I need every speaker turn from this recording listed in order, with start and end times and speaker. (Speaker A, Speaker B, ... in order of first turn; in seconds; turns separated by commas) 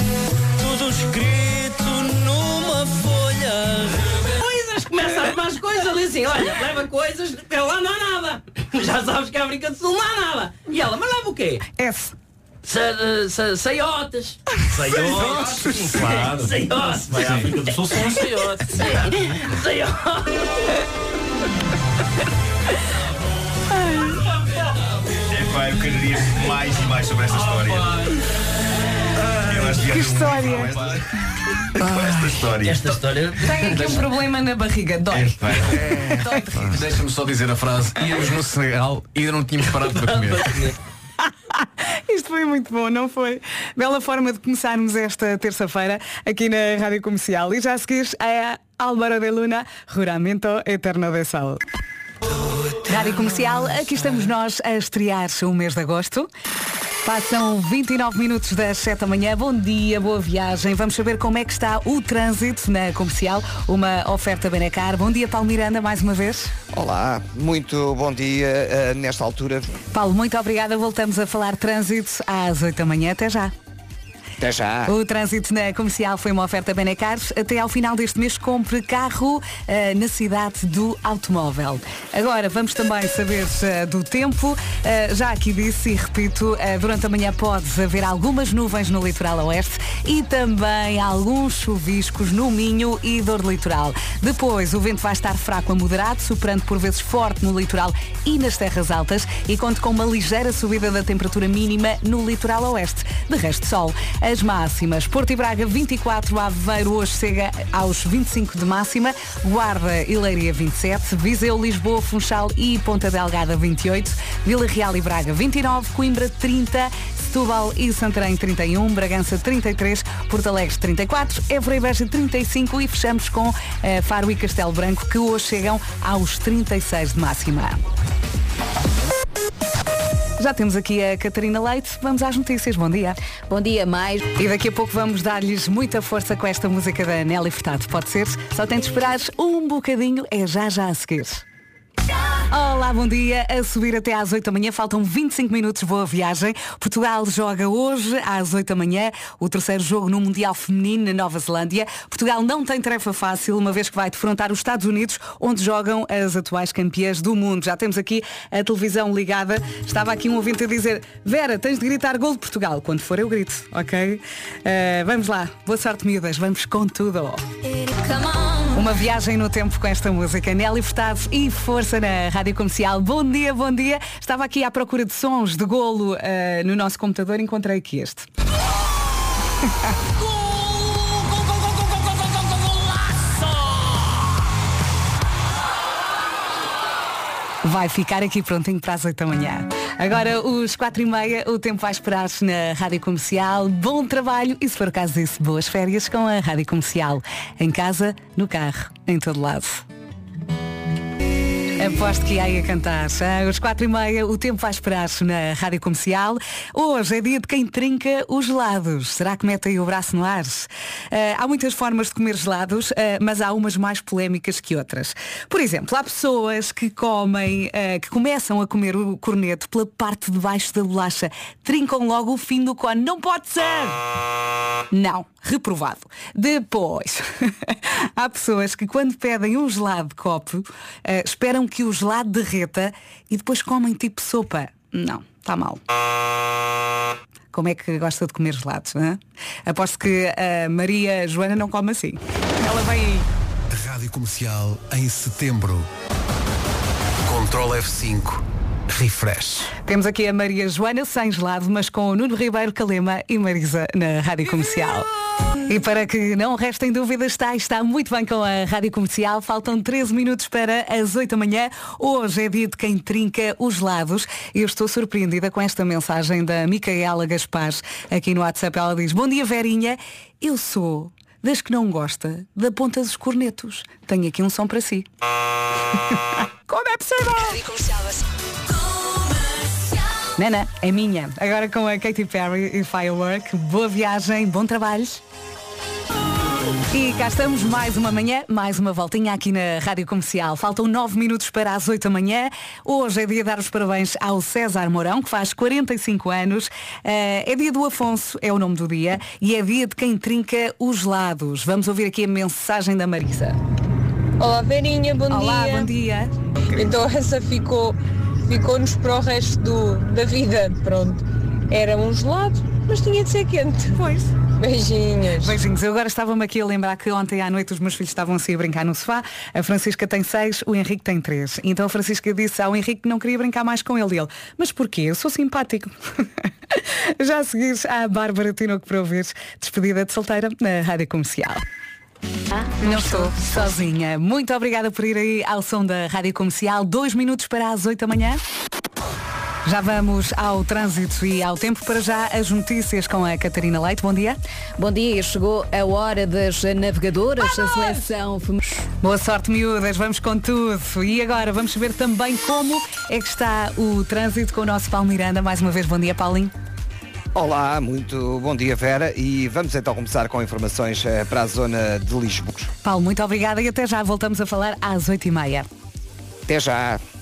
Speaker A: 0.6-11.6, Speaker B: 11.8-12.2, Speaker A: 12.6-20.4, Speaker C: 14.9-17.7, Speaker C: 25.3-27.9, Speaker C: 29.3-31.1, Speaker B: 29.8-30.7, Speaker C: 31.8-33.0, Speaker A: 32.6-33.4, Speaker B: 33.4-35.4, Speaker C: 35.1-36.2, Speaker B: 36.2-36.6, Speaker D: 36.6-40.5, Speaker B: 41.5-51.6, Speaker B: 52.8-56.3, Speaker B: 57.0-66.5, Speaker E: 66.7-69.7, Speaker B: 69.9-73.5, Speaker E: 74.4-74.9, Speaker B: 74.9-127.8, Speaker B: 130.4-133.2, Speaker F: 133.5-134.2, Speaker B: 134.3-141.4, Speaker B: 142.5-167.4, Speaker B: 168.7-178.2, Speaker B: 187.6-199.8, Speaker B: 201.8-224.0, Speaker B: 224.9-235.8, Speaker B: 237.5-243.3, Speaker G: 243.7-245.9, Speaker G: 247.2-249.7, Speaker B: 249.8-255.1, Speaker B: 255.7-275.1, Speaker B: 276.7-277.6, Speaker B: 280.4-285.2, Speaker B: 286.9-303.6, Speaker H: 304.4-305.9, Speaker B: 305.3-306.3, Speaker H: 306.7-314.0, Speaker B: 313.9-314.3, Speaker H: 314.5-315.6, Speaker B: 315.4-325.9, Speaker B: 326.7-331.6, Speaker B: 332.8-338.4, Speaker B: 339.6-344.4, Speaker F: 344.8-348.8, Speaker B: 349.0-356.5, Speaker E: 357.4-362.7, Speaker B: 362.8-365.7, Speaker E: 366.5-367.0